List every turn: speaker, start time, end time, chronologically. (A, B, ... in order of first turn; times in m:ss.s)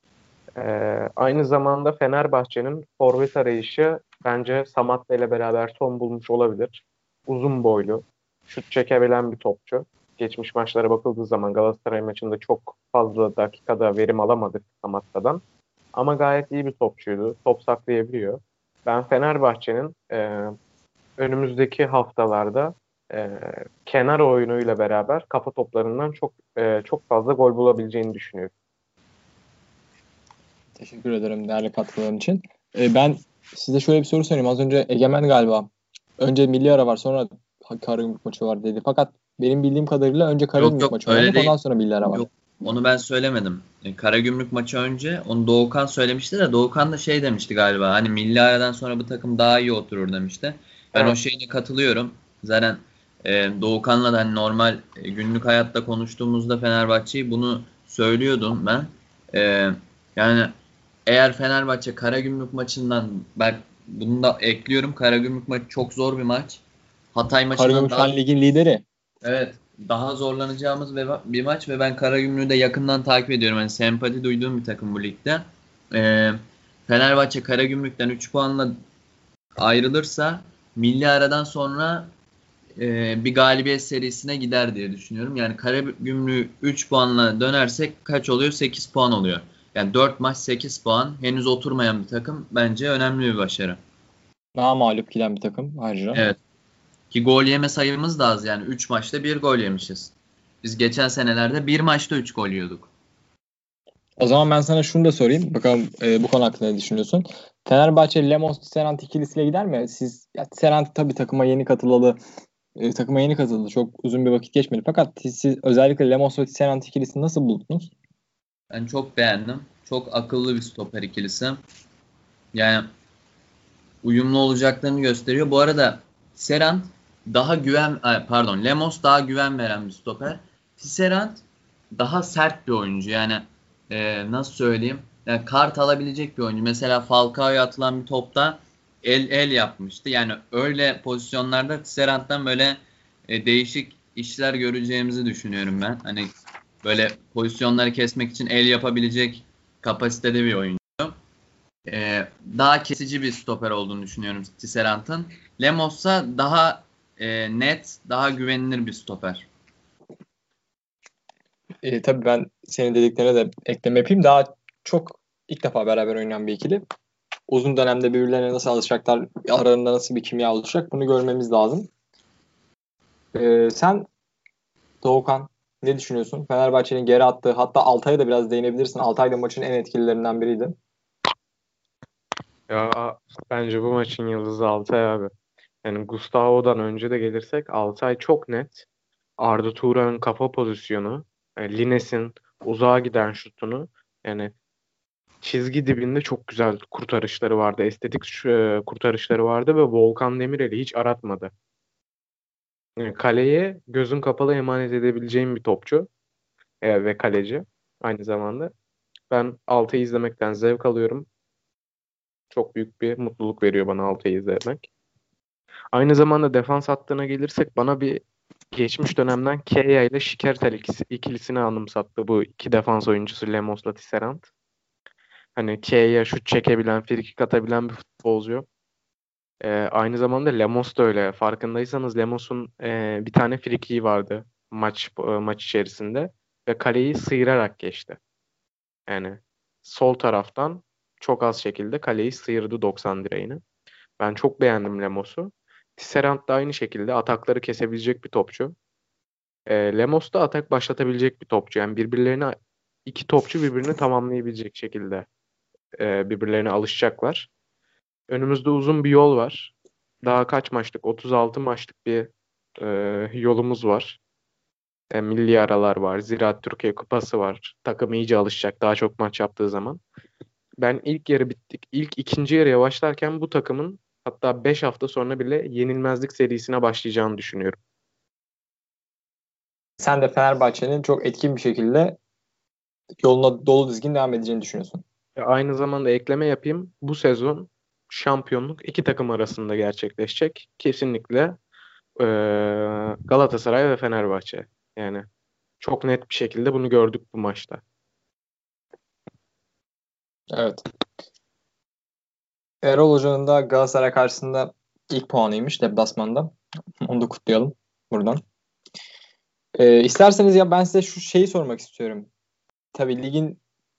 0:00.6-0:15.4 A
0:15.9-0:20.6 A
0:21.2-0:28.5 A
0:30.8-0:42.3 B
0:40.6-0:41.6 C
0:42.1-1:00.5 C
1:01.1-1:06.6 C
1:07.1-1:08.2 C
1:07.6-1:08.8 B
1:09.2-1:18.8 C
1:19.6-1:22.1 C
1:22.8-1:33.8 C
1:34.6-1:36.2 B
1:37.1-1:40.1 C
1:40.6-1:42.9 C
1:44.2-1:52.2 B
1:52.8-1:57.9 B
1:58.7-2:01.6 C
2:02.5-2:02.9 C
2:04.0-2:31.2 C
2:31.9-2:39.5 C
2:41.8-2:46.8 B
2:47.5-2:51.9 B
2:53.3-2:54.1 B
2:55.0-3:00.8 B
3:02.7-3:05.3 A
3:05.8-3:08.8 A
3:09.4-3:14.5 A
3:15.4-3:21.5 A
3:23.0-3:26.1 A
3:26.8-3:28.7 A
3:29.3-3:31.3 A
3:32.5-3:34.9 A
3:35.9-3:44.5 A
3:45.6-3:48.7 A
3:49.6-3:58.2 A
3:59.1-4:03.6 A
4:04.2-4:08.8 A
4:09.7-4:12.6 A
4:13.1-4:15.3 A
4:16.0-4:17.5 A
4:18.3-4:19.7 A
4:20.2-4:24.2 A
4:25.1-4:30.0 A
4:30.8-4:37.8 A
4:40.0-4:42.2 B
4:43.2-4:45.0 B
4:45.4-4:51.6 A
4:52.2-4:55.3 A
4:55.8-4:57.8 A
5:00.5-5:00.8 B
5:02.8-5:08.4 B
5:09.8-5:12.3 B
5:12.9-5:13.6 B